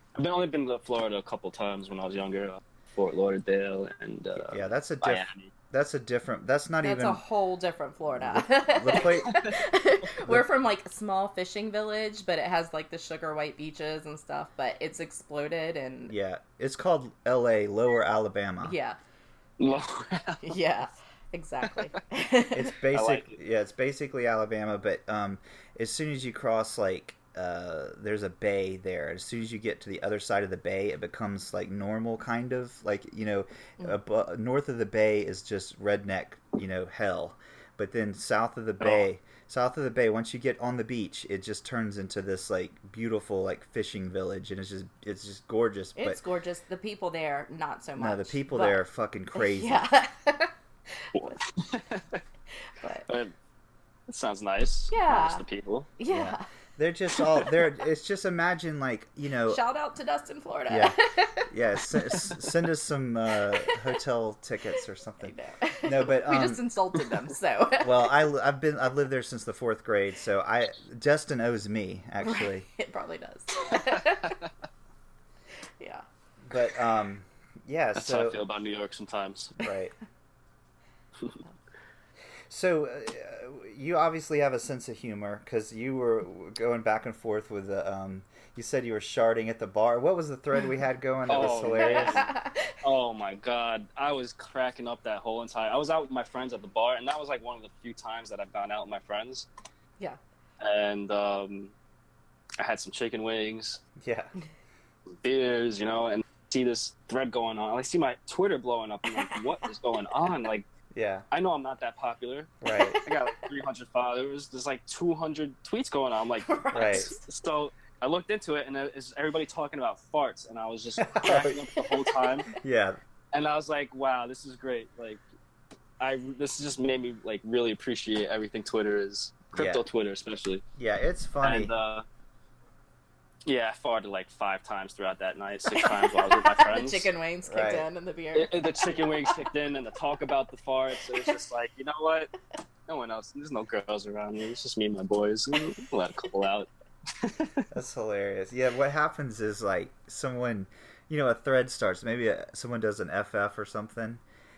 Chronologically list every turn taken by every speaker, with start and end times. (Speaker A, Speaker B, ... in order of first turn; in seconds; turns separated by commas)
Speaker A: 0.1-5.5, Speaker B: 4.4-7.2, Speaker C: 6.8-16.1, Speaker B: 8.1-9.4, Speaker B: 16.1-18.8, Speaker C: 18.6-19.0, Speaker A: 19.6-20.5, Speaker C: 20.4-22.7, Speaker A: 21.6-21.9, Speaker B: 22.5-46.2, Speaker A: 22.9-23.4, Speaker A: 38.8-39.1, Speaker C: 46.0-48.8, Speaker B: 48.0-49.8, Speaker C: 49.4-51.4, Speaker A: 51.1-52.2, Speaker C: 52.8-53.1, Speaker A: 53.1-53.3, Speaker A: 54.1-55.9, Speaker C: 54.9-55.4, Speaker C: 56.0-56.4, Speaker B: 56.1-59.6, Speaker C: 59.5-62.4, Speaker B: 60.7-66.6, Speaker C: 63.6-64.0, Speaker C: 65.2-68.1, Speaker B: 67.8-72.7, Speaker C: 72.2-74.4, Speaker A: 73.7-74.5, Speaker B: 76.5-78.4, Speaker A: 78.0-79.6, Speaker B: 79.6-79.9, Speaker B: 82.5-92.3, Speaker A: 91.3-99.5, Speaker C: 91.7-92.8, Speaker A: 100.6-101.7, Speaker A: 102.6-103.8, Speaker B: 104.0-104.3, Speaker A: 105.2-110.7, Speaker B: 110.9-111.2, Speaker A: 111.3-122.5, Speaker B: 112.6-113.0, Speaker C: 112.7-113.0, Speaker C: 116.4-117.2, Speaker B: 116.7-117.1, Speaker B: 121.0-121.6, Speaker C: 121.8-122.2, Speaker B: 122.6-123.0, Speaker A: 123.3-125.2, Speaker A: 126.0-130.6, Speaker B: 129.5-129.8, Speaker B: 130.8-131.7, Speaker A: 131.4-132.1, Speaker A: 133.4-137.1, Speaker C: 135.7-139.4, Speaker B: 137.5-137.8, Speaker A: 138.3-142.3, Speaker A: 142.9-147.7, Speaker B: 147.7-154.2